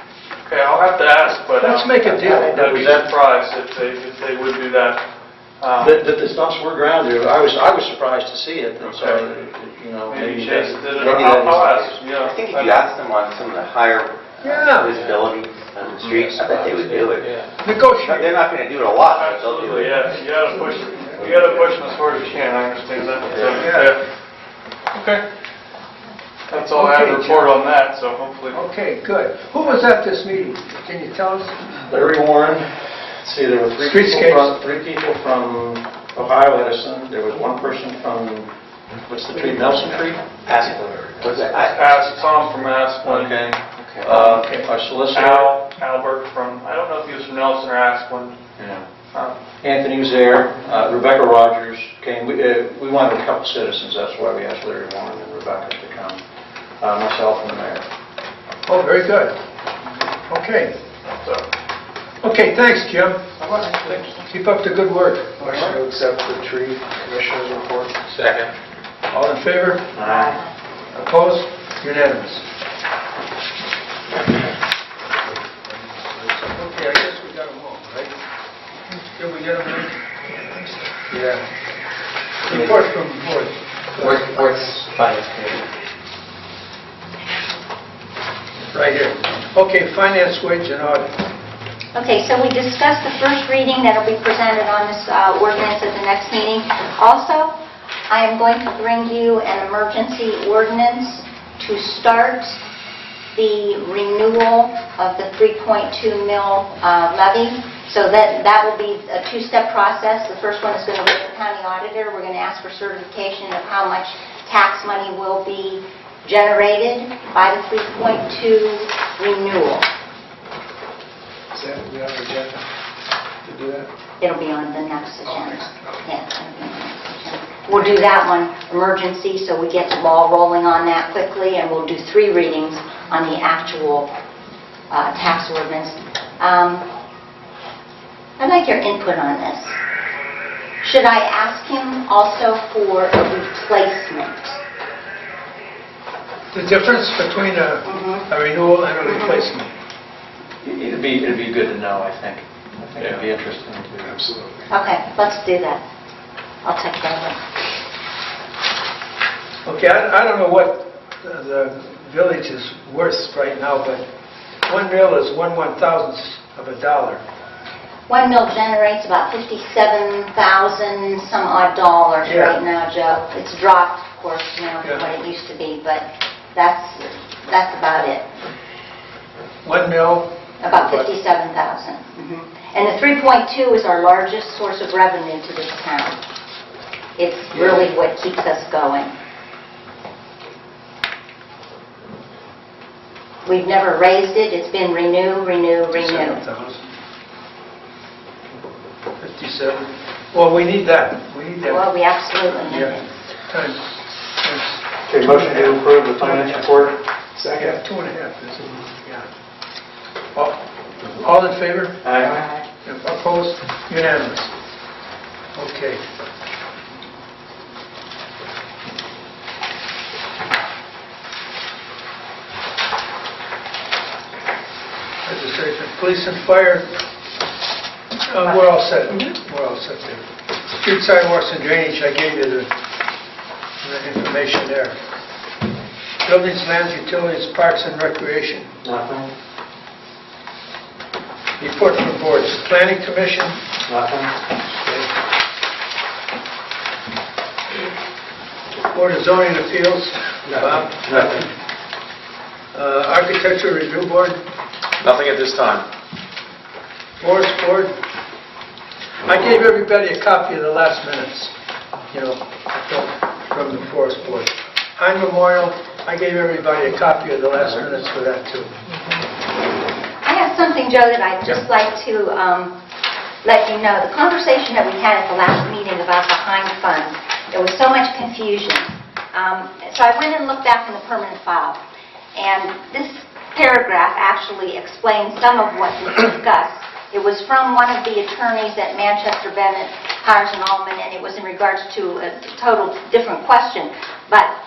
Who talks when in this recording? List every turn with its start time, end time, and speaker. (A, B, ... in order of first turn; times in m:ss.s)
0:00.4-0:05.0 A
0:01.6-0:03.1 B
0:02.1-0:03.0 C
0:05.6-0:06.0 A
0:05.8-0:11.9 C
0:08.8-0:09.2 A
0:10.1-0:12.8 A
0:11.0-0:17.4 D
0:14.4-0:14.9 B
0:16.4-0:17.3 C
0:17.6-0:18.3 B
0:18.0-0:20.0 D
0:19.1-0:24.0 A
0:20.3-0:21.4 B
0:21.2-0:21.8 D
0:23.5-0:23.9 B
0:24.9-0:25.2 A
0:26.5-0:28.6 A
0:26.5-0:27.5 B
0:28.5-0:31.6 B
0:31.9-0:38.5 C
0:33.8-0:34.6 B
0:39.0-0:40.7 C
0:40.4-0:42.1 D
0:41.5-0:44.1 A
0:43.0-0:45.5 C
0:44.1-0:44.7 B
0:45.1-0:48.4 A
0:48.6-0:48.9 C
0:49.1-0:49.4 A
0:49.6-0:56.2 C
0:56.8-0:57.8 C
0:58.7-0:59.4 B
1:00.3-1:00.7 B
1:02.2-1:03.3 B
1:03.4-1:04.1 A
1:04.0-1:05.8 B
1:05.5-1:07.3 E
1:07.1-1:07.8 C
1:09.1-1:10.0 B
1:10.0-1:10.3 C
1:10.0-1:10.4 F
1:10.9-1:12.4 B
1:15.3-1:18.1 B
1:19.1-1:19.9 B
1:21.1-1:21.4 B
1:22.4-1:24.6 B
1:24.4-1:25.6 E
1:28.7-1:31.1 B
1:31.9-1:37.5 F
1:38.1-1:42.6 F
1:43.3-1:59.9 F
2:01.5-2:02.5 B
2:03.5-2:03.8 B
2:04.2-2:14.1 F
2:14.9-2:16.8 F
2:18.4-2:19.8 F
2:20.8-2:24.6 F
2:26.5-2:29.7 B
2:27.8-2:28.2 F
2:29.0-2:29.5 F
2:30.6-2:34.2 C
2:34.7-2:35.8 F
2:36.6-2:37.4 F
2:39.6-2:44.0 B
2:44.6-2:47.2 B
2:48.1-2:58.2 F
2:52.2-2:52.6 B
2:54.8-2:55.1 B
2:59.6-3:01.1 B
3:00.6-3:06.2 F
3:07.2-3:09.1 F
3:13.4-3:16.4 F
3:15.9-3:16.9 B
3:19.2-3:21.9 B
3:21.7-3:23.0 F
3:22.6-3:23.0 B
3:23.5-3:29.3 B
3:25.1-3:26.9 C
3:30.3-3:34.5 B
3:32.0-3:32.4 C
3:35.5-3:36.0 B
3:45.2-3:46.9 B
3:48.3-3:52.7 B
3:48.4-3:49.3 F
3:53.8-3:54.9 B
3:56.2-3:58.7 B
3:58.8-3:59.3 C
4:01.6-4:03.6 B
4:03.9-4:04.3 C
4:04.8-4:05.1 B
4:08.9-4:11.5 B
4:11.0-4:11.3 C
4:12.7-4:14.4 B
4:15.0-4:15.8 E
4:15.2-4:15.7 C
4:17.2-4:17.9 B
4:19.2-4:21.5 B
4:22.1-4:28.7 B
4:30.2-4:32.7 F
4:33.4-4:41.8 F
4:42.3-4:54.5 F